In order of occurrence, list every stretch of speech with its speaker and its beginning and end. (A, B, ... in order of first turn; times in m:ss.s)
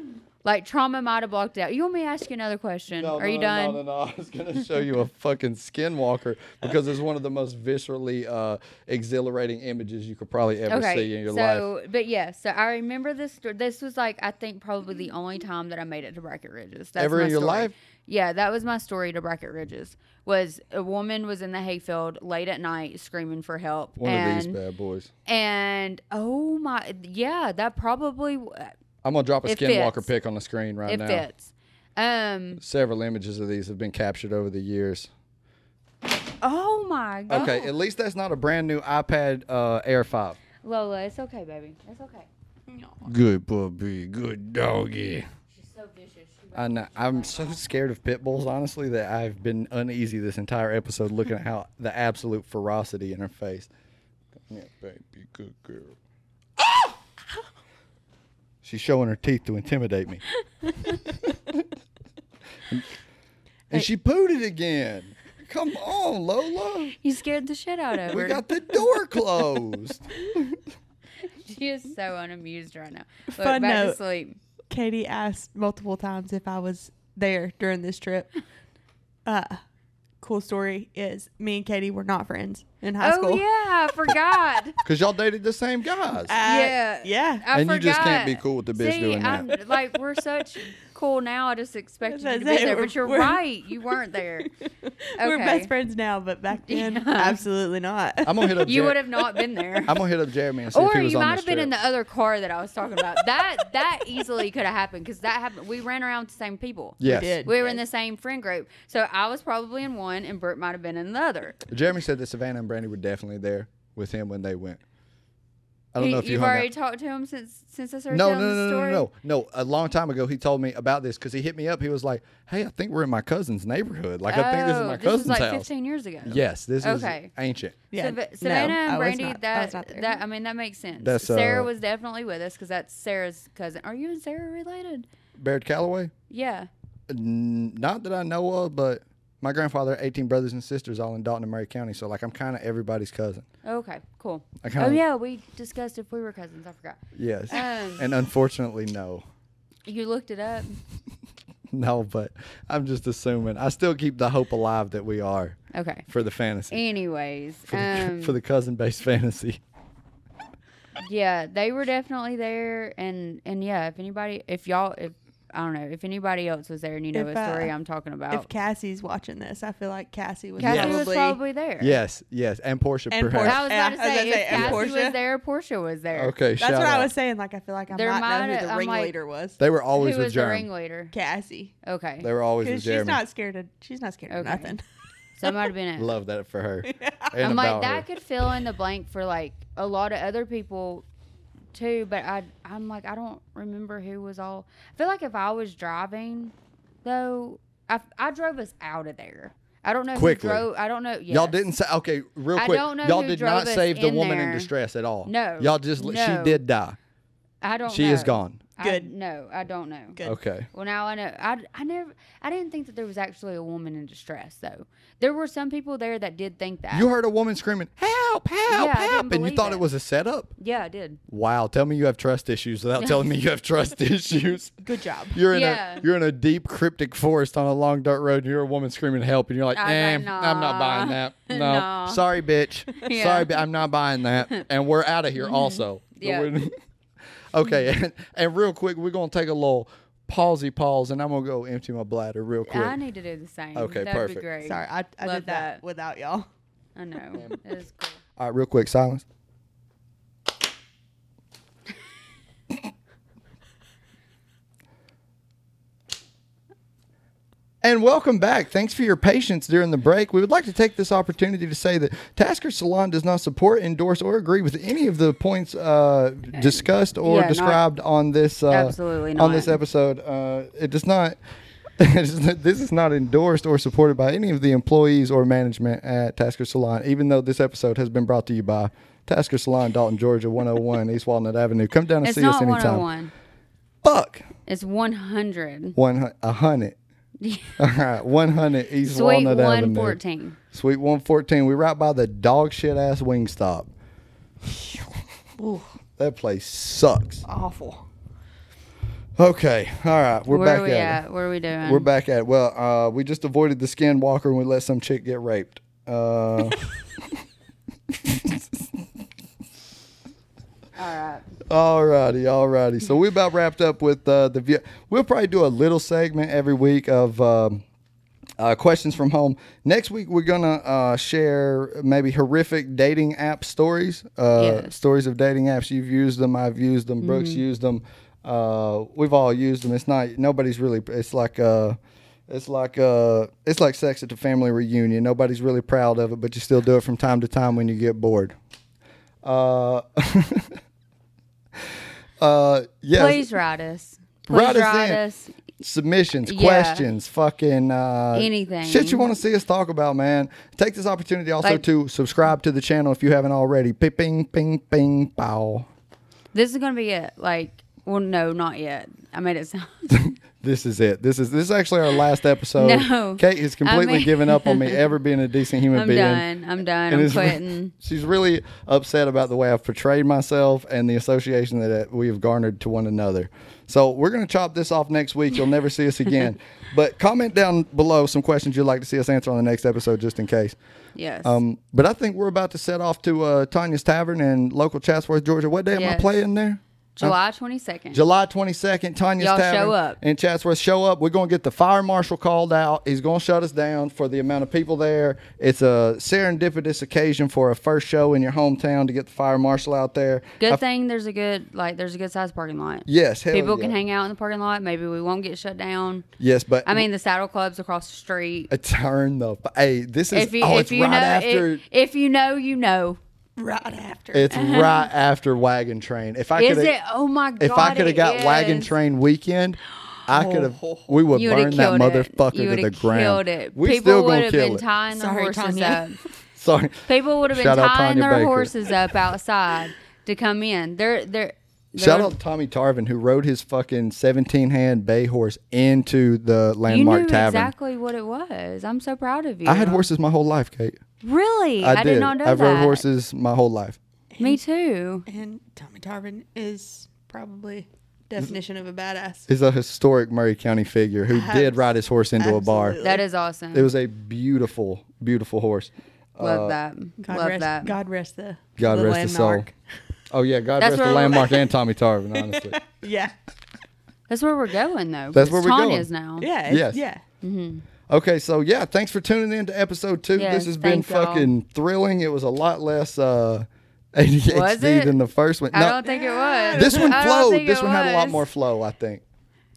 0:00.4-0:03.8 A
0:02.9-0:11.7 B
0:10.7-0:24.6 A
0:17.0-0:17.7 B
0:24.0-0:25.1 B
0:25.2-0:28.8 A
0:29.0-0:31.2 B
0:29.4-0:30.1 A
0:30.8-0:32.6 A
0:32.6-0:35.1 B
0:36.4-0:37.7 A
0:37.3-0:40.4 B
0:40.6-0:42.3 A
0:42.7-0:43.1 C
0:43.0-0:45.3 B
0:45.5-0:47.6 A
0:46.5-0:53.7 B
0:54.5-0:56.0 B
0:58.6-1:00.2 B
1:01.0-1:01.7 B
1:03.7-1:07.0 B
1:07.0-1:08.6 A
1:08.1-1:10.6 B
1:11.4-1:14.4 A
1:13.4-1:14.0 C
1:14.7-1:18.3 C
1:19.2-1:19.6 C
1:20.2-1:23.4 C
1:23.0-1:24.8 A
1:24.8-1:26.4 B
1:26.3-1:27.4 C
1:26.4-1:34.5 A
1:27.5-1:29.6 B
1:32.1-1:38.7 C
1:35.2-1:35.7 A
1:36.7-1:37.4 A
1:38.2-1:39.1 B
1:38.6-1:40.0 A
1:39.4-1:39.7 C
1:39.8-1:41.7 B
1:40.7-1:51.6 A
1:47.0-1:47.5 B
1:47.0-1:47.8 C
1:51.7-1:54.8 B
1:55.9-1:56.7 B
1:56.0-1:59.1 A
1:58.1-2:05.7 B
2:04.3-2:07.3 A
2:06.2-2:07.8 B
2:07.9-2:10.2 C
2:07.9-2:15.1 A
2:11.0-2:11.7 B
2:15.4-2:16.1 B
2:16.3-2:16.7 A
2:17.1-2:23.4 B
2:23.6-2:28.1 A
2:24.6-2:25.0 B
2:27.2-2:29.2 B
2:29.8-2:30.8 A
2:31.7-2:36.8 B
2:35.7-2:36.0 A
2:36.7-2:38.4 A
2:37.7-2:39.6 B
2:41.0-2:48.5 A
2:47.1-2:47.7 C
2:48.3-2:51.4 C
2:50.6-2:52.0 A
2:50.6-2:51.0 B
2:51.8-2:53.6 B
2:53.1-2:55.2 C
2:53.4-2:56.3 A
2:54.5-2:54.8 B
2:56.1-2:57.1 B
2:56.6-2:59.6 C
2:57.9-2:59.1 A
2:59.6-3:00.7 B
3:00.0-3:01.1 A
3:01.1-3:01.7 C
3:01.8-3:02.3 A
3:02.2-3:03.2 B
3:02.6-3:04.8 C
3:04.3-3:04.7 A
3:05.4-3:06.1 A
3:06.0-3:08.0 B
3:06.8-3:07.3 C
3:07.4-3:11.0 A
3:11.7-3:21.6 A
3:20.1-3:20.6 B
3:21.3-3:27.0 B
3:22.5-3:24.7 A
3:25.2-3:26.6 A
3:27.6-3:30.2 A
3:27.9-3:28.6 B
3:28.8-3:29.1 C
3:30.2-3:30.7 B
3:30.7-3:37.1 A
3:36.9-3:40.5 B
3:38.7-3:39.8 A
3:40.6-3:41.2 A
3:41.3-3:44.8 B
3:44.8-3:45.4 C
3:45.3-3:56.7 B
3:45.5-3:46.0 A
3:49.7-3:52.2 A
3:52.9-3:53.6 A
3:55.4-3:56.5 A
3:57.5-4:03.0 B
4:02.6-4:05.8 A
4:03.8-4:04.4 B
4:04.6-4:06.5 C
4:07.0-4:08.2 A
4:08.4-4:09.2 B
4:17.8-4:31.4 B
4:27.2-4:27.8 A
4:28.7-4:29.8 A
4:32.0-4:43.0 B
4:42.2-4:43.3 A
4:44.0-4:44.4 B
4:44.7-4:46.0 A
4:46.0-4:47.0 B
4:47.4-4:47.7 A
4:47.8-4:50.2 B
4:49.0-4:50.6 A
4:50.7-4:53.9 B
4:55.6-4:55.9 C
4:56.2-4:57.4 B
4:57.4-4:58.0 C
4:59.4-5:01.2 B
5:00.5-5:02.1 A
5:01.8-5:07.4 B
5:08.1-5:09.0 B
5:11.0-5:11.4 A
5:11.7-5:17.8 B
5:18.6-5:32.0 B
5:24.6-5:24.9 A
5:27.2-5:27.6 A
5:32.5-5:38.6 B
5:39.4-5:40.8 B
5:41.8-5:43.5 B
5:43.1-5:45.6 A
5:44.4-5:45.2 B
5:45.8-5:55.9 B
5:46.4-5:47.1 A
5:48.3-5:49.3 A
5:56.5-6:00.1 A
6:00.1-6:06.4 B
6:02.8-6:05.0 A
6:05.9-6:07.9 A
6:07.1-6:20.8 B
6:21.2-6:21.6 A
6:21.4-6:27.4 B
6:25.9-6:26.3 A
6:27.2-6:28.2 A
6:28.1-6:40.8 B
6:29.4-6:30.2 A
6:40.6-6:46.2 A
6:43.1-6:44.0 B
6:46.4-6:47.1 B
6:46.8-6:48.7 A
6:48.7-6:51.8 B
6:50.3-6:53.2 A
6:53.6-6:54.5 C
6:54.3-6:56.9 B
6:54.5-6:55.0 A
6:56.5-6:58.9 A
6:57.6-7:04.8 B
7:00.3-7:01.2 C
7:01.3-7:06.2 A
7:05.1-7:06.0 C
7:06.5-7:09.0 B
7:07.1-7:12.3 A
7:11.9-7:17.7 B
7:16.9-7:20.1 A
7:19.6-7:21.0 B
7:21.2-7:23.1 A
7:21.8-7:24.0 B
7:24.3-7:24.6 C
7:24.4-7:25.2 A
7:25.3-7:29.5 C
7:29.5-7:33.0 B
7:31.3-7:33.2 C
7:33.0-7:33.9 A
7:33.7-7:36.8 B
7:36.4-7:37.9 A
7:37.2-7:39.7 C
7:38.8-7:39.7 B
7:40.3-7:42.8 B
7:40.8-7:41.6 A
7:42.3-7:43.3 C
7:44.3-7:46.5 A
7:45.3-7:46.1 B
7:46.4-7:47.2 C
7:46.7-7:47.0 B
7:47.4-7:47.8 A
7:48.1-7:56.0 B
7:50.3-7:51.5 A
7:54.5-7:55.2 A
7:55.7-7:58.4 A
7:56.0-7:57.2 C
7:56.7-7:59.2 B